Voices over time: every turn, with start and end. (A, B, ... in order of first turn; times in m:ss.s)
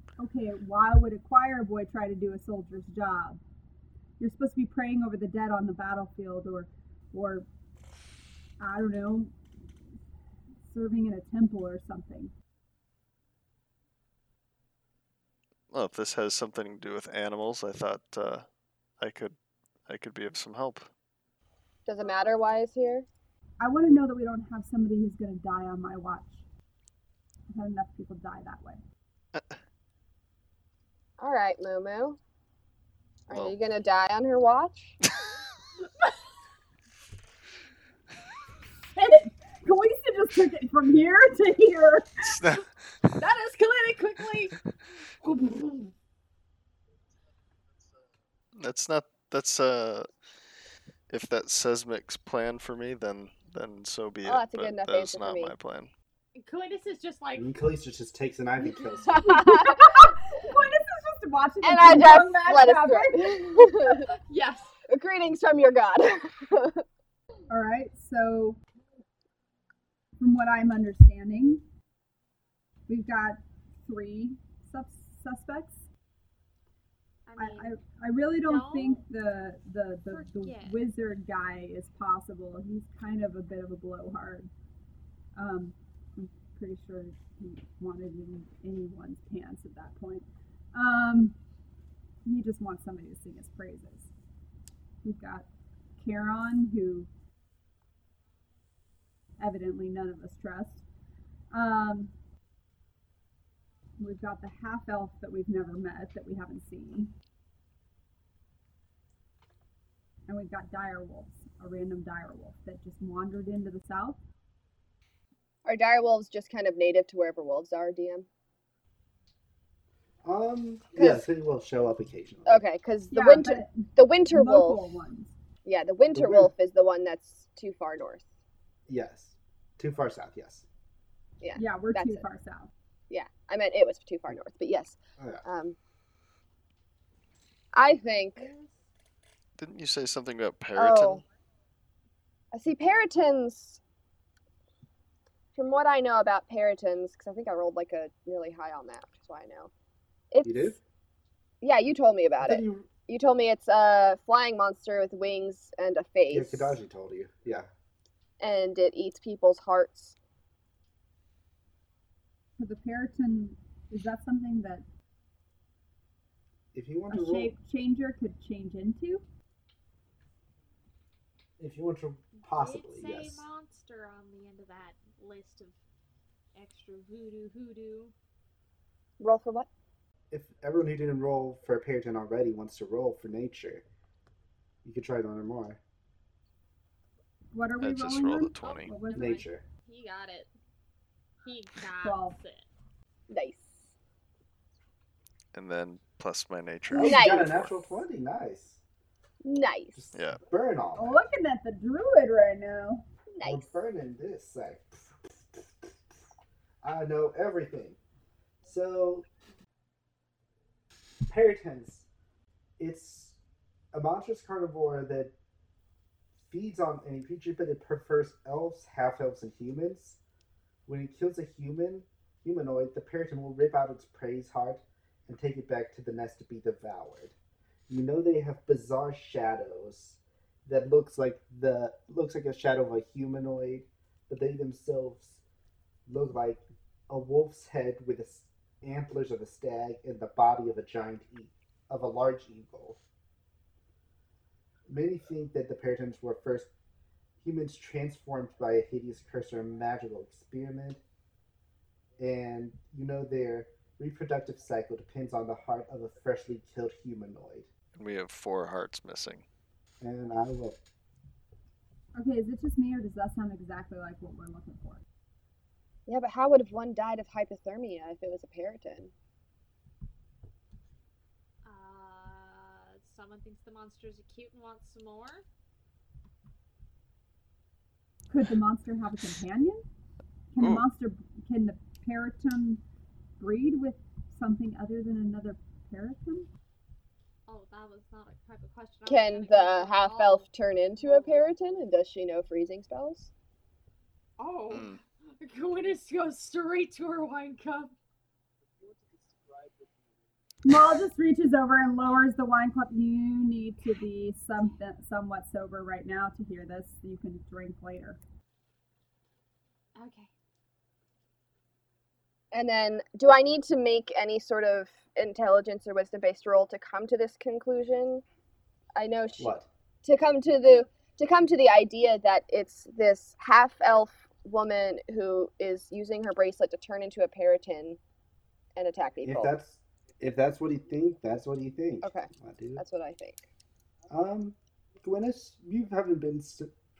0:00.2-0:03.4 A
0:04.2-0:07.5 A
0:08.6-0:09.3 A
0:10.6-0:12.3 A
0:15.7-0:18.5 B
0:19.0-0:19.4 B
0:19.9-0:20.9 B
0:21.9-0:23.1 C
0:23.6-0:26.4 A
0:27.5-0:28.8 A
0:29.3-0:29.6 B
0:31.2-0:32.2 C
0:33.3-0:35.0 C
0:39.0-0:42.4 A
0:42.2-0:43.2 B
0:43.2-0:44.5 C
0:48.6-0:50.1 B
0:51.1-0:55.9 B
0:54.2-0:55.5 C
0:56.4-0:57.5 D
0:57.4-0:59.2 E
0:59.0-1:00.1 C
0:59.2-1:03.7 A
1:01.6-1:04.1 C
1:04.2-1:04.7 D
1:04.9-1:06.8 C
1:07.5-1:08.6 A
1:10.2-1:11.6 A
1:12.9-1:15.8 A
1:17.3-1:17.7 D
1:17.4-1:24.5 A
1:18.4-1:19.0 D
1:20.1-1:20.9 D
1:25.4-1:31.4 A
1:32.2-1:34.1 A
1:35.0-1:35.5 A
1:36.0-1:37.1 A
1:39.4-1:40.8 A
1:41.5-1:42.1 A
1:44.0-1:47.1 A
1:50.3-1:54.2 A
1:55.6-1:58.3 C
2:00.2-2:02.6 E
2:01.0-2:01.3 C
2:02.5-2:04.8 C
2:03.1-2:05.3 A
2:05.6-2:08.2 C
2:06.1-2:06.5 E
2:08.9-2:10.7 E
2:11.4-2:12.2 C
2:11.6-2:12.7 A
2:13.1-2:15.8 C
2:15.2-2:15.4 E
2:17.7-2:18.5 C
2:18.4-2:18.7 D
2:19.6-2:21.2 B
2:20.8-2:21.2 C
2:22.5-2:23.8 C
2:25.6-2:29.7 C
2:30.3-2:30.8 C
2:30.4-2:30.8 E
2:31.6-2:36.8 C
2:32.4-2:32.9 E
2:36.3-2:37.7 E
2:38.4-2:40.2 C
2:42.6-2:44.9 A
2:46.7-2:47.6 E
2:47.1-2:49.2 A
2:51.6-2:53.5 E
2:52.5-2:55.8 D
2:56.6-2:58.1 D
2:59.2-2:59.7 C
3:00.3-3:03.8 E
3:04.8-3:05.8 E
3:07.5-3:09.4 A
3:07.8-3:08.9 B
3:08.6-3:10.5 D
3:09.1-3:09.6 E
3:11.4-3:12.7 D
3:12.0-3:12.4 A
3:13.3-3:13.8 C
3:15.5-3:17.9 B
3:16.9-3:18.8 E
3:17.0-3:17.5 C
3:19.4-3:20.0 C
3:20.0-3:21.2 E
3:20.1-3:20.4 B
3:21.0-3:23.0 A
3:23.3-3:23.8 C
3:23.4-3:25.9 E
3:26.8-3:28.0 E
3:28.6-3:29.3 E
3:31.3-3:32.1 E
3:32.8-3:33.4 E
3:33.9-3:35.3 E
3:36.4-3:40.2 E
3:40.9-3:47.3 E
3:47.9-3:55.4 E
3:56.1-4:03.0 E
4:04.9-4:06.7 E
4:07.4-4:11.0 E
4:12.2-4:17.7 E
4:18.0-4:19.4 B
4:20.0-4:20.8 E
4:22.2-4:25.0 A
4:26.1-4:29.1 C
4:31.6-4:35.4 D
4:38.3-4:39.8 A
4:40.5-4:42.8 A
4:40.6-4:40.9 B
4:43.4-4:46.5 A
4:47.5-4:50.5 D
4:49.1-4:53.3 C
4:54.4-4:58.0 D
4:54.7-4:55.0 B
5:00.6-5:08.2 A
5:10.0-5:10.3 D
5:12.5-5:18.2 C
5:19.0-5:19.5 C
5:19.4-5:19.7 E
5:20.0-5:28.0 C
5:28.8-5:29.6 C
5:29.2-5:32.8 E
5:32.0-5:33.5 C
5:34.1-5:36.7 E